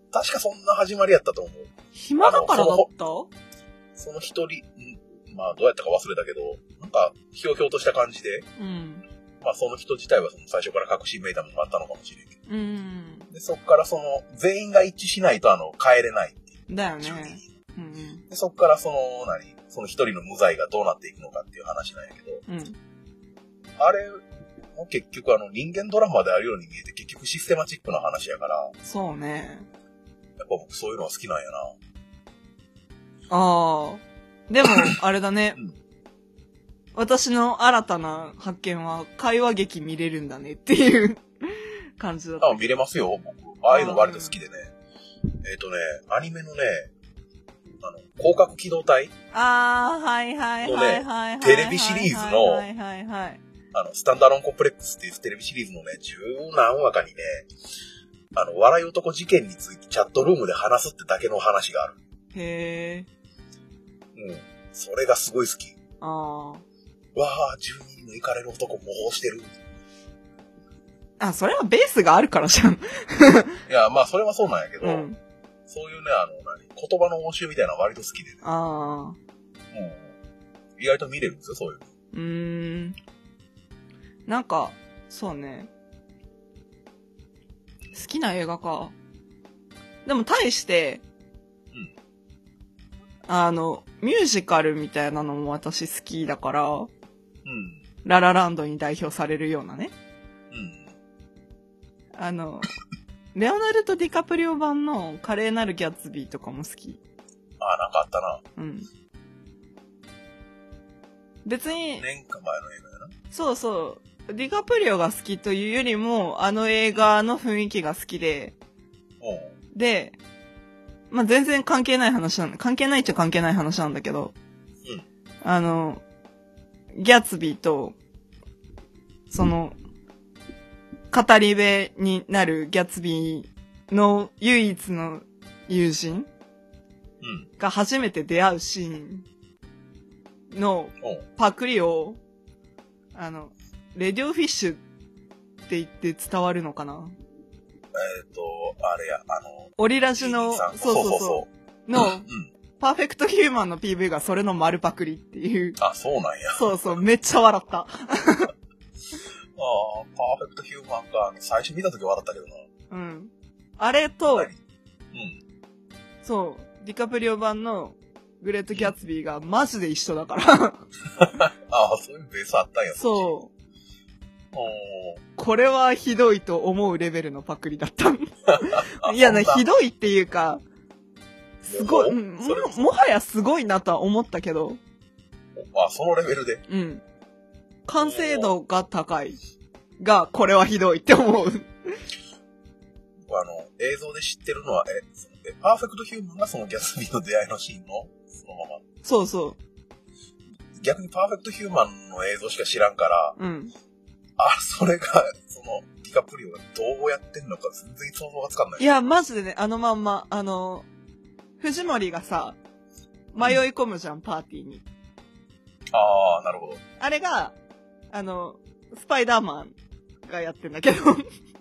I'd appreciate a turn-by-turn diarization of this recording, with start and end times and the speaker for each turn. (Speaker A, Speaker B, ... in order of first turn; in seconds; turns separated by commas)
Speaker A: 0.1-1.7, Speaker B: 1.9-3.3, Speaker A: 2.2-2.9, Speaker A: 4.0-8.5, Speaker B: 8.6-9.0, Speaker A: 9.4-12.3, Speaker B: 12.5-13.3, Speaker A: 13.3-17.4, Speaker B: 16.7-18.2, Speaker A: 18.3-22.4, Speaker B: 22.5-22.8, Speaker A: 23.8-24.2, Speaker A: 24.7-28.7, Speaker B: 28.8-29.7, Speaker A: 30.4-31.7, Speaker B: 33.3-35.6, Speaker B: 37.0-42.6, Speaker A: 42.4-44.7, Speaker B: 43.7-44.4, Speaker A: 45.4-46.9, Speaker A: 47.8-49.1, Speaker B: 49.3-53.4, Speaker A: 50.6-52.7, Speaker A: 53.7-57.5, Speaker A: 58.3-62.0, Speaker B: 62.3-63.1, Speaker A: 64.1-65.7, Speaker B: 66.0-66.6, Speaker A: 67.1-69.5, Speaker B: 71.2-73.6, Speaker A: 73.7-75.1, Speaker B: 74.8-75.2, Speaker A: 75.7-78.4, Speaker B: 78.4-79.2, Speaker A: 79.7-80.1, Speaker A: 80.8-81.9, Speaker B: 82.1-83.0, Speaker B: 84.3-85.7, Speaker B: 87.9-88.9, Speaker B: 90.0-91.0, Speaker B: 93.3-96.9, Speaker A: 97.5-97.8, Speaker B: 98.0-99.9, Speaker A: 100.5-100.9, Speaker B: 102.2-102.7, Speaker B: 103.3-107.0, Speaker A: 107.6-108.4, Speaker B: 108.6-108.9, Speaker B: 111.5-112.0, Speaker A: 112.0-113.1, Speaker B: 113.3-118.5, Speaker A: 119.2-119.5, Speaker B: 119.7-120.2, Speaker B: 121.1-124.3, Speaker B: 125.4-126.0, Speaker B: 127.0-128.0, Speaker B: 129.3-129.7, Speaker B: 131.1-136.3, Speaker A: 137.2-137.5, Speaker B: 137.6-139.3, Speaker B: 140.5-142.2, Speaker B: 143.1-144.8, Speaker B: 145.7-147.1, Speaker A: 147.9-151.5, Speaker B: 149.8-152.3, Speaker B: 152.8-155.8, Speaker A: 155.8-156.9, Speaker B: 156.5-158.5, Speaker A: 159.6-162.6, Speaker B: 162.9-164.5, Speaker A: 164.3-164.6, Speaker A: 165.1-165.4, Speaker B: 166.2-170.8, Speaker A: 171.2-173.3, Speaker B: 172.9-173.5, Speaker A: 174.5-175.2, Speaker B: 175.4-180.6, Speaker A: 178.6-179.6, Speaker B: 181.6-184.8, Speaker A: 181.7-182.8, Speaker A: 185.6-186.6, Speaker B: 186.7-187.0, Speaker B: 187.9-189.4, Speaker A: 188.0-188.6, Speaker B: 190.0-191.9, Speaker A: 193.3-198.8, Speaker B: 199.0-199.6, Speaker A: 200.8-203.4, Speaker B: 203.4-203.7, Speaker A: 204.4-208.8, Speaker B: 208.8-210.9, Speaker B: 211.6-212.6, Speaker B: 213.3-214.8, Speaker A: 215.9-216.8, Speaker B: 217.0-217.6, Speaker B: 218.1-219.7, Speaker B: 220.3-221.2